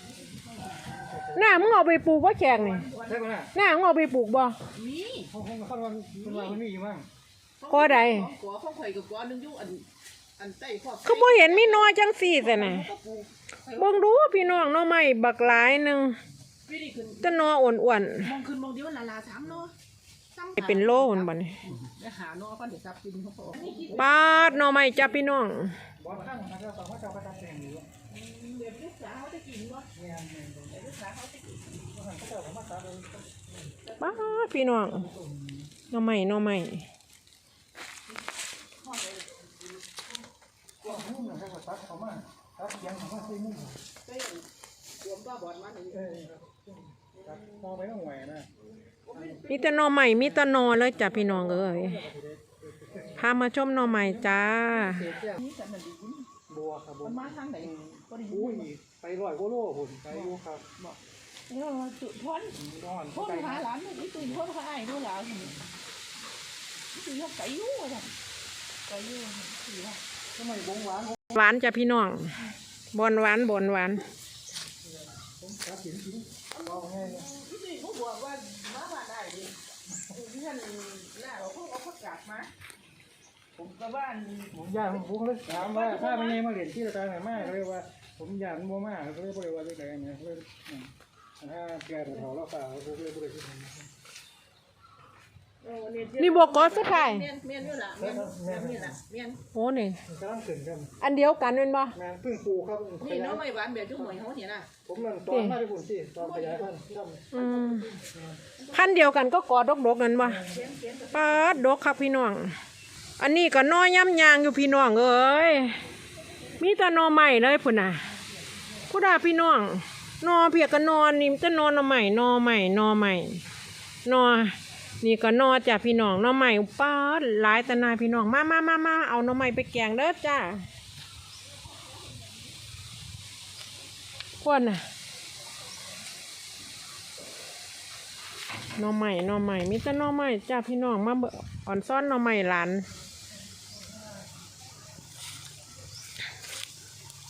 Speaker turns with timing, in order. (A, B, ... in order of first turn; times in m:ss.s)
0:00.2-0:01.1 A
0:01.1-0:01.7 B
0:01.3-0:02.9 C
0:02.5-0:03.2 A
0:03.0-0:03.5 B
0:03.5-0:04.6 C
0:04.7-0:05.3 A
0:05.3-0:07.0 B
0:06.2-0:06.6 A
0:07.6-0:09.8 A
0:07.7-0:08.3 C
0:10.4-0:14.4 A
0:11.0-0:12.9 C
0:13.7-0:16.2 C
0:16.7-0:17.4 A
0:17.2-0:18.3 C
0:18.2-0:19.7 A
0:20.3-0:24.7 A
0:20.6-0:21.7 C
0:23.9-0:25.8 C
0:26.0-0:27.9 B
0:28.1-0:29.9 A
0:29.9-0:30.8 B
0:30.7-0:31.8 A
0:31.9-0:33.3 B
0:33.9-0:34.3 A
0:34.0-0:35.1 C
0:34.9-0:35.7 B
0:35.9-0:36.9 C
0:38.8-0:39.7 A
0:40.8-0:41.2 A
0:40.8-0:43.8 B
0:44.0-0:44.4 A
0:45.0-0:46.2 A
0:45.9-0:48.5 B
0:49.0-0:49.9 A
0:49.1-0:49.4 B
0:49.5-0:52.0 C
0:50.5-0:53.2 B
0:53.2-0:55.1 C
0:54.0-0:54.3 B
0:54.7-0:56.3 A
0:54.9-0:55.4 B
0:56.5-1:00.7 B
0:57.0-0:58.7 A
1:00.1-1:01.0 A
1:01.5-1:02.6 A
1:02.6-1:03.7 B
1:03.1-1:05.6 A
1:06.9-1:08.1 A
1:08.8-1:10.0 A
1:10.3-1:11.3 B
1:11.3-1:14.0 C
1:15.2-1:17.3 B
1:16.5-1:22.5 A
1:23.6-1:24.6 A
1:24.5-1:33.9 B
1:25.5-1:26.4 A
1:35.6-1:39.4 A
1:36.2-1:37.3 C
1:38.0-1:39.0 B
1:39.5-1:40.0 C
1:40.1-1:40.9 B
1:41.0-1:42.0 C
1:41.9-1:43.4 B
1:43.0-1:44.7 A
1:44.8-1:47.4 B
1:45.3-1:45.6 C
1:46.2-1:46.7 A
1:47.3-1:47.9 C
1:47.4-1:47.9 A
1:48.1-1:48.4 B
1:48.6-1:49.1 A
1:48.7-1:50.4 C
1:50.4-1:51.6 A
1:51.1-1:52.6 C
1:53.2-1:55.8 C
1:56.6-1:58.0 C
1:58.9-2:03.4 C
2:04.0-2:10.7 C
2:14.4-2:14.9 C
2:18.7-2:22.9 C